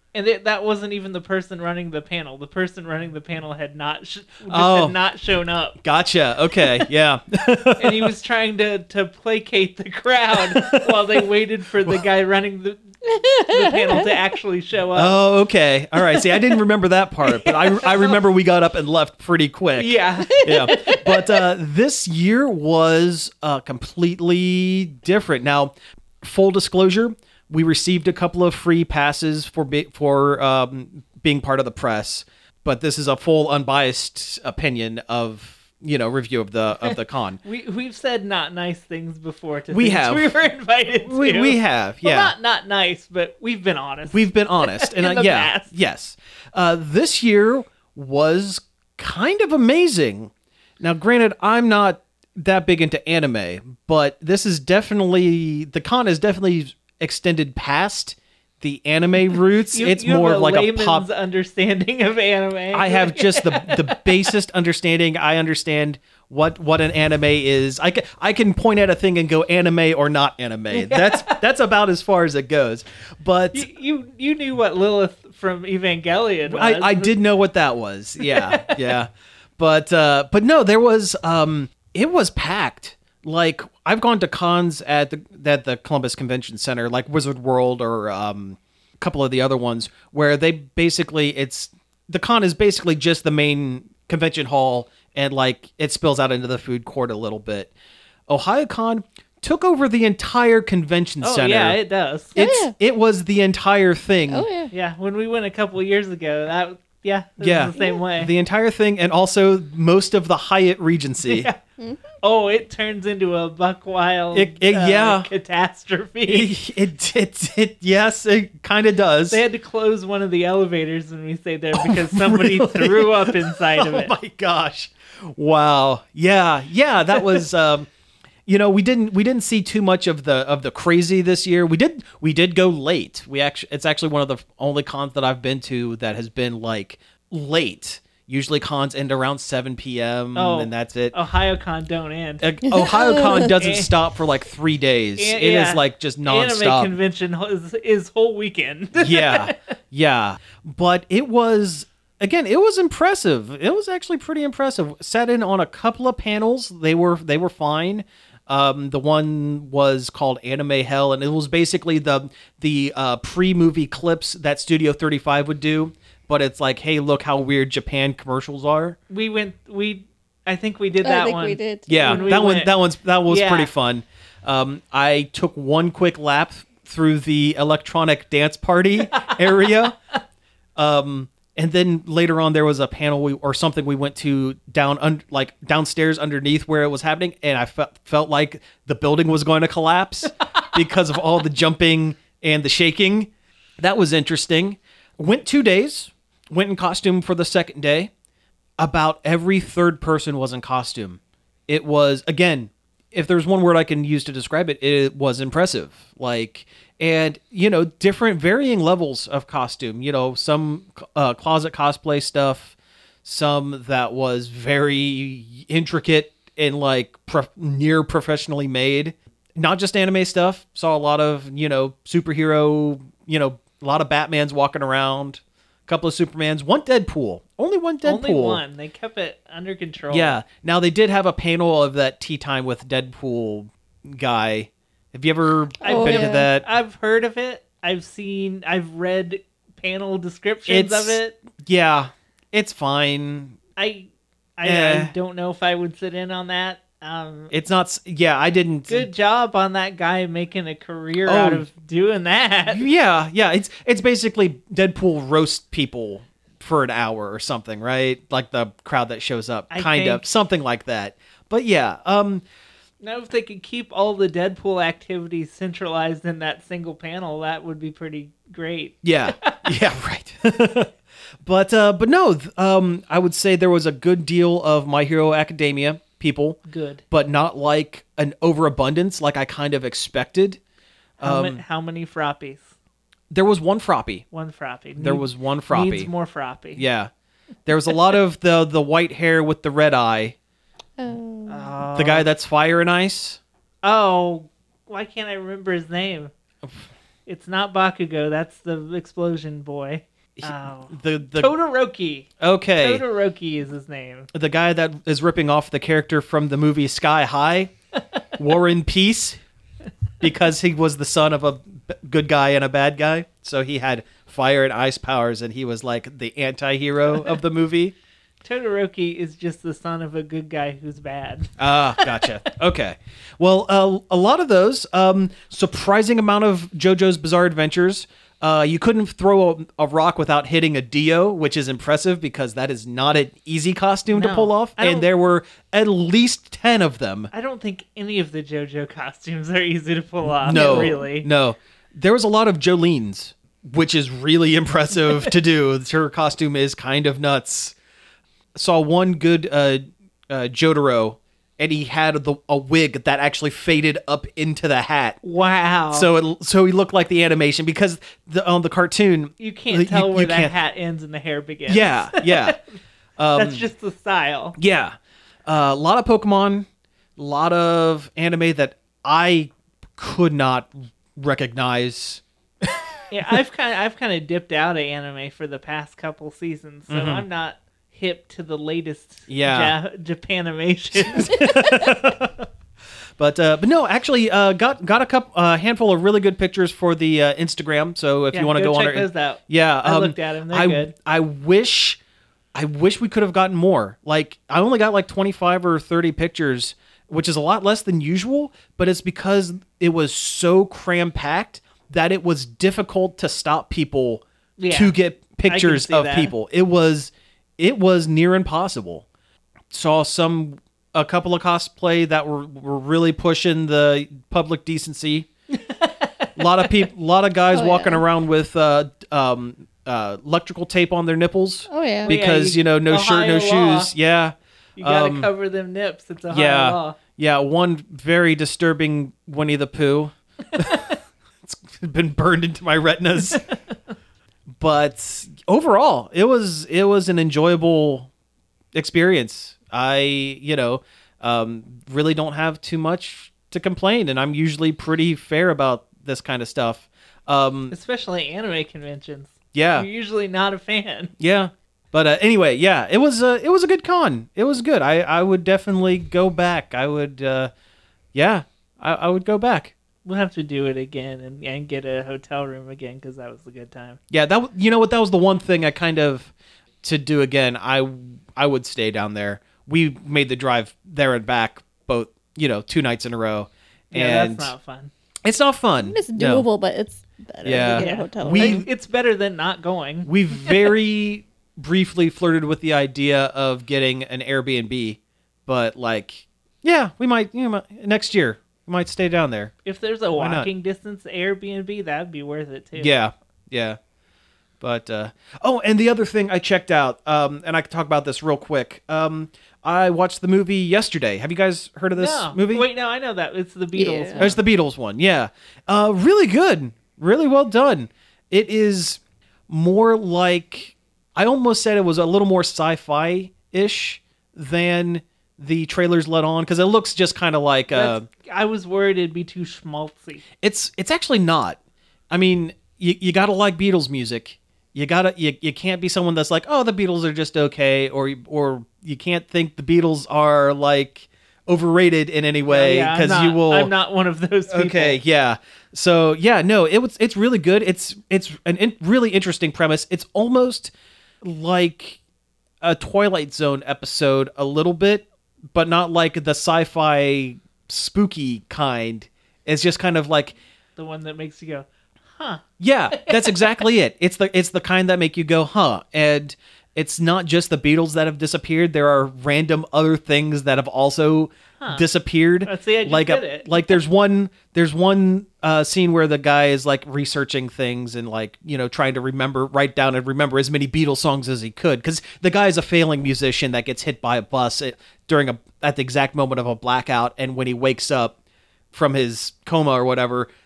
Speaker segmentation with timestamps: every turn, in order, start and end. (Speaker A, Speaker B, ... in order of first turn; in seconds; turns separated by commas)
Speaker A: 0.1-5.8, Speaker B: 4.5-4.9, Speaker B: 5.8-8.1, Speaker A: 7.8-15.2, Speaker B: 10.3-11.0, Speaker B: 14.9-37.4, Speaker A: 16.2-16.5, Speaker A: 17.2-18.2, Speaker A: 19.8-21.4, Speaker A: 37.4-45.7, Speaker B: 39.7-40.3, Speaker B: 41.0-42.3, Speaker B: 44.1-61.1, Speaker A: 59.7-64.3, Speaker B: 62.7-73.7, Speaker A: 70.7-71.4, Speaker A: 73.5-77.2, Speaker B: 76.5-97.7, Speaker A: 78.2-78.9, Speaker B: 98.3-101.8, Speaker A: 101.2-102.4, Speaker B: 102.3-104.5, Speaker C: 102.4-102.8, Speaker C: 104.3-104.7, Speaker A: 104.7-108.3, Speaker B: 107.4-111.5, Speaker A: 111.2-111.6, Speaker A: 112.2-116.5, Speaker B: 114.3-115.3, Speaker B: 116.3-119.4, Speaker A: 119.3-124.1, Speaker B: 121.7-127.9, Speaker B: 128.5-141.2, Speaker A: 140.3-142.6, Speaker B: 142.4-147.0, Speaker A: 143.2-143.9, Speaker A: 145.2-149.6, Speaker B: 149.0-169.0, Speaker A: 169.1-172.7, Speaker C: 171.0-172.4, Speaker B: 171.9-180.0, Speaker A: 173.3-173.7, Speaker A: 179.1-179.7, Speaker B: 180.8-198.1, Speaker B: 198.8-228.6, Speaker A: 228.0-230.4, Speaker B: 230.1-236.7, Speaker A: 235.8-241.4, Speaker C: 235.8-236.5, Speaker B: 240.7-243.6, Speaker A: 243.8-247.5, Speaker B: 244.6-245.1, Speaker B: 247.5-249.1, Speaker A: 248.9-252.9, Speaker B: 251.3-251.7, Speaker B: 252.7-262.4, Speaker A: 259.7-260.2, Speaker A: 263.0-269.8, Speaker B: 269.0-270.9, Speaker B: 271.4-276.6, Speaker A: 276.7-277.0, Speaker B: 277.1-280.6, Speaker A: 281.2-282.7, Speaker B: 281.2-281.6, Speaker B: 283.3-284.2, Speaker A: 284.3-286.9, Speaker B: 285.0-286.1, Speaker B: 286.8-287.1, Speaker B: 287.7-290.4, Speaker C: 291.0-291.7, Speaker A: 291.5-292.3, Speaker B: 291.9-293.4, Speaker A: 293.8-296.3, Speaker A: 297.3-304.3, Speaker B: 300.4-301.5, Speaker B: 302.4-303.0, Speaker B: 304.3-307.7, Speaker B: 308.4-309.4, Speaker B: 310.2-317.9, Speaker A: 318.4-322.4, Speaker B: 321.6-337.3, Speaker A: 334.1-335.1, Speaker A: 337.3-341.3, Speaker B: 340.3-347.8, Speaker C: 340.5-341.1, Speaker B: 348.6-355.2, Speaker A: 355.2-356.1, Speaker B: 355.9-360.5, Speaker A: 359.4-362.6, Speaker B: 361.7-362.6, Speaker B: 363.2-363.7, Speaker A: 363.4-364.6, Speaker B: 364.6-372.2, Speaker A: 373.1-381.9, Speaker B: 376.9-377.2, Speaker B: 379.3-379.8, Speaker B: 381.0-382.4, Speaker B: 383.2-392.0, Speaker A: 388.3-390.9, Speaker B: 392.5-409.1, Speaker A: 404.6-406.3, Speaker B: 409.7-415.3, Speaker A: 415.8-416.3, Speaker B: 416.4-425.3, Speaker C: 417.5-418.0, Speaker C: 421.7-422.1, Speaker A: 422.1-423.9, Speaker A: 424.8-427.0, Speaker B: 426.3-433.4, Speaker B: 434.6-438.1, Speaker B: 438.7-447.7, Speaker A: 447.7-451.1, Speaker B: 449.6-449.9, Speaker B: 451.2-457.5, Speaker B: 458.1-459.7, Speaker A: 460.1-464.0, Speaker B: 464.1-466.3, Speaker B: 466.8-474.5, Speaker A: 473.9-474.9, Speaker B: 475.2-476.5, Speaker C: 475.8-478.6, Speaker B: 477.4-478.7, Speaker A: 477.8-480.7, Speaker B: 480.1-489.5, Speaker A: 489.6-492.9, Speaker B: 490.1-490.5, Speaker B: 492.8-493.8, Speaker B: 494.6-502.7, Speaker A: 502.0-504.4, Speaker C: 503.8-504.3, Speaker B: 504.2-518.1, Speaker A: 517.7-520.2, Speaker B: 520.4-521.6, Speaker B: 522.1-533.7, Speaker A: 532.5-535.0, Speaker B: 534.5-542.0, Speaker B: 542.6-550.4, Speaker A: 550.8-553.5, Speaker B: 552.6-578.2, Speaker A: 562.5-563.5, Speaker B: 578.7-580.3